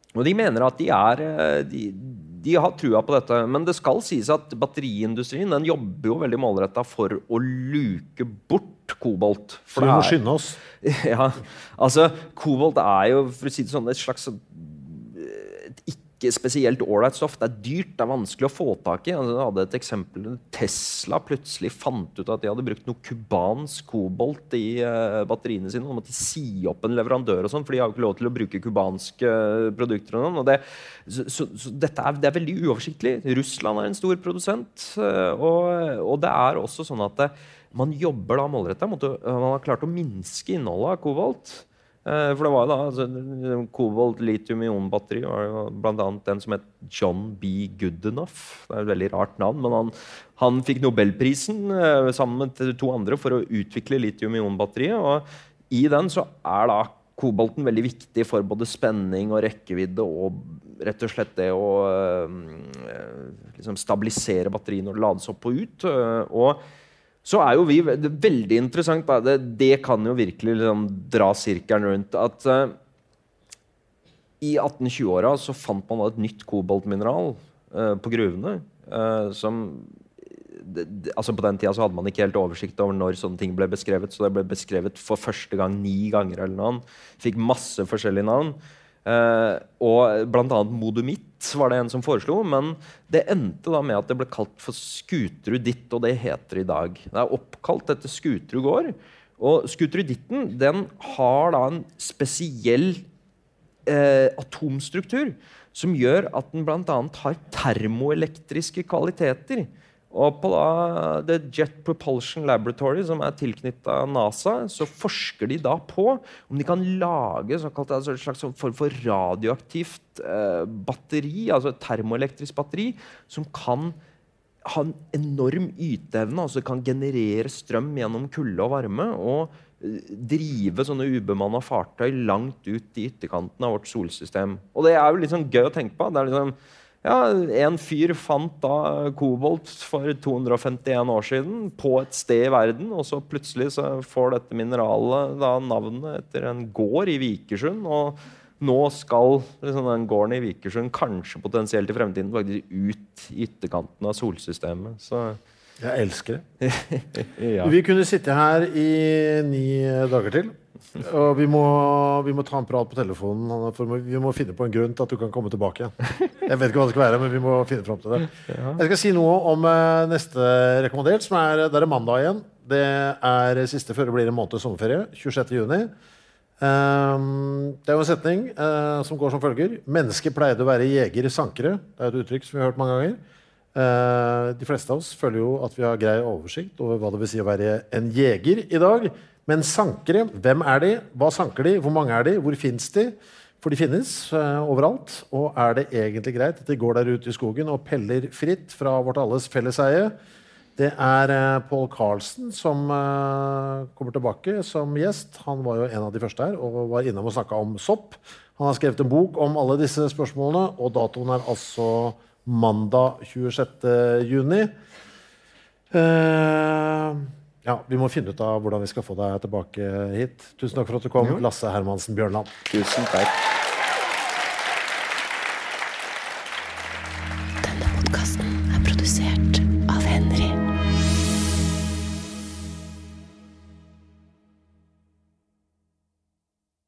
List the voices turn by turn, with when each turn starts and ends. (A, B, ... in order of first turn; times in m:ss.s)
0:00.2-0:10.2 A
0:09.7-0:10.6 B
0:10.7-1:06.6 A
1:07.2-1:12.8 A
1:14.4-1:43.0 A
1:43.8-2:04.0 A
2:04.6-2:35.4 A
2:35.8-2:36.4 B
2:36.6-2:37.7 A
2:37.6-2:55.9 B
2:48.5-2:48.8 A
2:56.6-3:03.2 B
3:03.7-3:20.1 B
3:20.8-3:34.7 B
3:35.9-3:42.6 B
3:42.7-3:43.4 A
3:47.6-3:50.6 C